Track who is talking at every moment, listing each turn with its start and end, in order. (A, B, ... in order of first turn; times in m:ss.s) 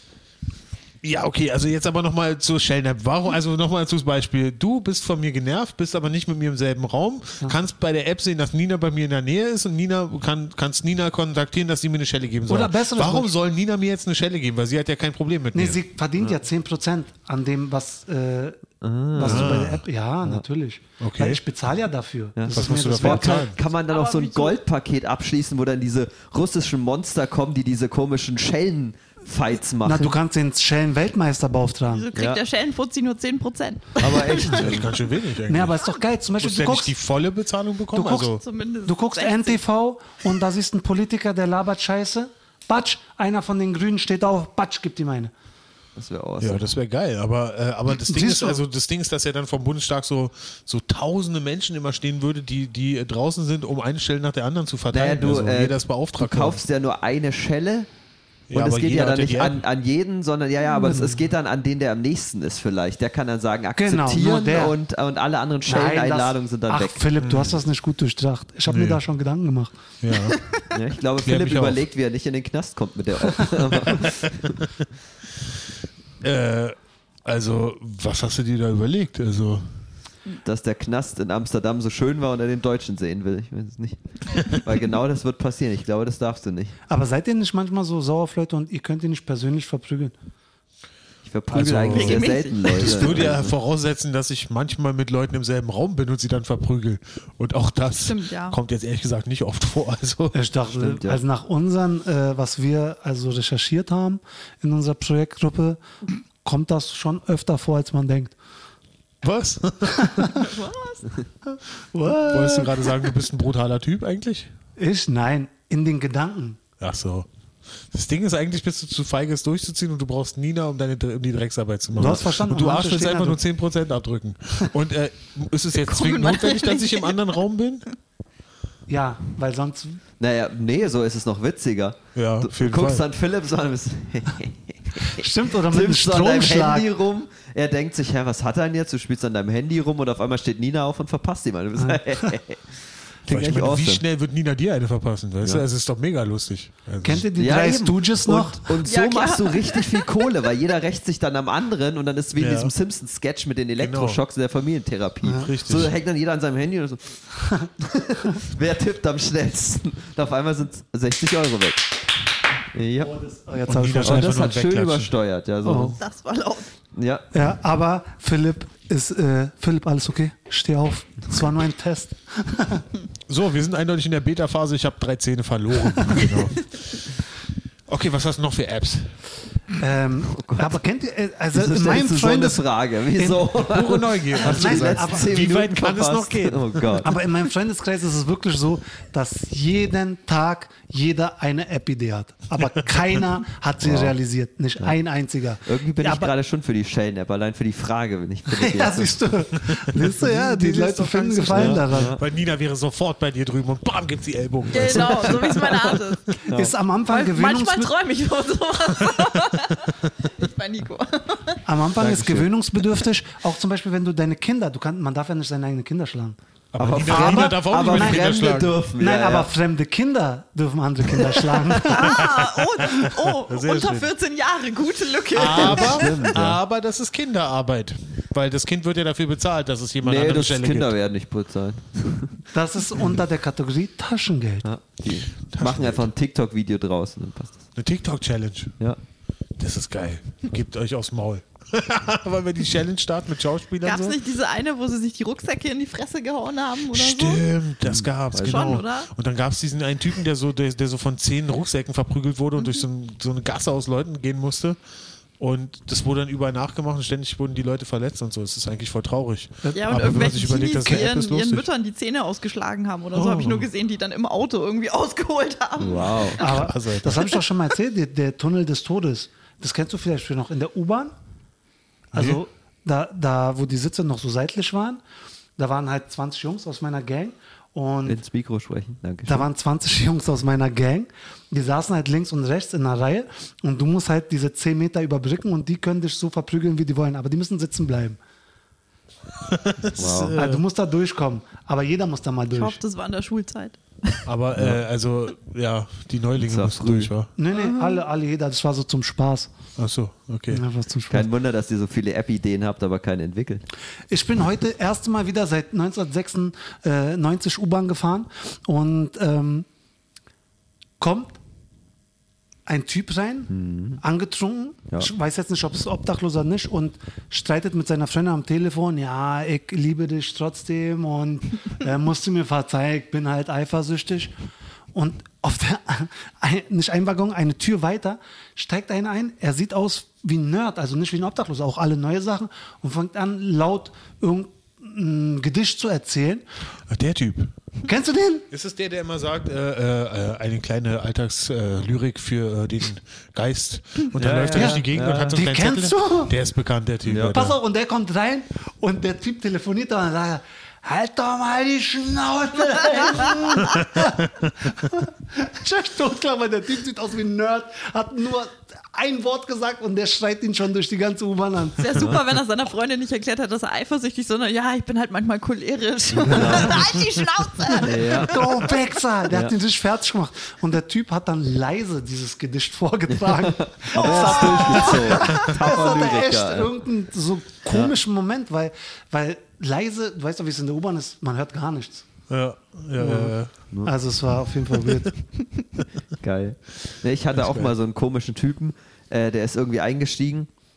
0:01.0-0:15.8 A
0:12.5-0:13.3 B
0:15.5-0:18.6 B
0:18.8-0:19.7 C
0:19.1-0:23.5 B
0:19.2-0:19.8 A
0:21.0-0:21.4 A
0:22.4-0:30.2 C
0:22.5-0:23.6 A
0:23.9-0:24.6 D
0:29.8-0:32.1 B
0:31.9-0:34.6 D
0:32.1-0:32.4 C
0:34.0-0:34.9 C
0:34.4-0:35.8 A
0:35.5-0:36.9 B
0:36.4-0:38.4 A
0:37.9-0:45.3 B
0:38.4-0:39.6 D
0:46.0-0:46.7 C
0:46.4-0:56.6 A
0:48.1-0:48.6 B
0:54.9-0:57.9 C
0:58.5-0:59.6 A
0:58.5-1:07.0 C
1:00.8-1:01.2 B
1:03.8-1:04.8 B
1:05.6-1:09.8 B
1:07.2-1:07.6 A
1:08.7-1:09.0 A
1:10.0-1:10.4 A
1:10.7-1:14.6 C
1:11.2-1:11.8 A
1:13.8-1:14.6 A
1:16.2-1:19.7 A
1:20.4-1:26.8 C
1:26.9-1:30.1 B
1:31.2-1:33.6 C
1:31.5-1:40.4 A
1:31.9-1:33.3 D
1:37.9-1:38.6 D
1:40.3-1:45.8 B
1:40.7-1:41.2 C
1:46.4-1:48.4 B
1:49.2-1:50.5 A
1:49.9-1:50.4 B
1:50.3-1:51.0 D
1:51.5-1:52.9 B
1:52.1-1:54.5 A
1:54.8-1:56.6 B
1:56.8-1:57.3 A
1:57.9-2:07.9 A
2:01.9-2:03.4 B
2:05.7-2:07.2 D
2:08.9-2:10.0 B
2:10.2-2:24.0 C
2:12.1-2:13.0 A
2:15.0-2:16.9 B
2:21.8-2:22.4 B
2:23.3-2:27.3 A
2:27.0-2:28.8 B
2:27.4-2:37.2 C
2:28.8-2:30.2 D
2:32.4-2:32.7 A
2:33.8-2:34.2 A
2:35.2-2:35.5 B
2:35.3-2:35.9 A
2:37.8-2:42.0 C
2:42.7-2:43.2 C
2:43.0-2:44.5 B
2:43.7-2:45.1 A
2:44.0-2:46.0 C
2:45.6-2:46.0 B
2:46.0-2:46.7 D
2:46.9-2:47.3 C
2:47.3-2:52.9 B
2:53.3-2:57.1 A
2:57.9-2:59.2 A
2:59.8-3:02.6 B
3:00.3-3:00.8 C
3:01.5-3:07.1 C
3:03.1-3:03.4 B
3:03.6-3:07.0 A
3:04.4-3:05.3 B
3:07.0-3:16.3 B
3:13.8-3:14.1 C
3:15.6-3:19.1 C
3:18.5-3:22.2 B
3:19.7-3:26.0 A
3:21.5-3:22.2 C
3:24.7-3:26.4 D
3:26.5-3:26.7 C
3:26.5-3:27.9 B
3:27.1-3:31.6 D
3:29.0-3:29.5 A
3:31.6-3:38.3 B
3:32.0-3:32.5 C
3:36.7-3:38.8 A
3:36.8-3:39.5 C
3:39.0-3:42.3 B
3:41.8-3:46.3 D
3:42.0-3:44.1 A
3:45.3-3:50.9 A
3:45.5-3:46.6 C
3:50.0-3:52.4 C
3:52.5-3:54.7 B
3:54.6-3:57.6 C
3:55.5-3:56.1 A
3:57.8-3:58.8 A
3:59.6-4:04.2 A
4:03.8-4:07.4 D
4:06.9-4:14.8 A
4:07.8-4:08.8 C
4:08.4-4:09.1 D
4:15.4-4:21.7 A
4:19.6-4:20.0 B
4:19.7-4:26.6 D
4:23.1-4:23.7 A
4:25.8-4:26.4 C
4:26.4-4:31.1 B
4:26.4-4:27.4 A
4:32.1-4:35.0 B
4:32.1-4:32.4 A
4:35.6-4:38.2 B
4:38.1-4:39.5 C
4:39.3-4:48.2 B
4:49.4-4:50.6 A
4:50.0-4:50.4 C
4:50.3-4:52.8 B
4:52.5-4:54.2 D
4:54.3-4:57.3 A
4:54.6-4:54.8 C
4:56.4-4:57.1 C
4:57.4-4:59.5 B
4:57.5-4:58.0 D
4:59.8-5:00.6 A
5:00.5-5:01.3 B
5:01.1-5:03.6 C
5:04.1-5:09.6 B
5:11.0-5:11.4 B
5:12.6-5:24.4 B
5:13.5-5:14.0 C
5:24.9-5:36.4 B
5:36.9-5:37.5 A
5:37.8-5:38.5 B
5:38.5-5:47.6 A
5:44.1-5:45.4 C
5:44.5-5:44.8 B
5:45.3-5:46.4 B
5:47.1-5:47.5 C
5:47.3-6:02.1 B
6:01.8-6:08.8 D
6:06.1-6:06.9 C
6:07.7-6:22.1 B
6:07.8-6:08.4 C
6:09.3-6:09.6 C
6:13.2-6:16.7 C
6:14.0-6:15.3 D
6:22.3-6:23.5 A
6:23.0-6:25.1 B
6:26.2-6:30.5 C
6:27.4-6:27.7 A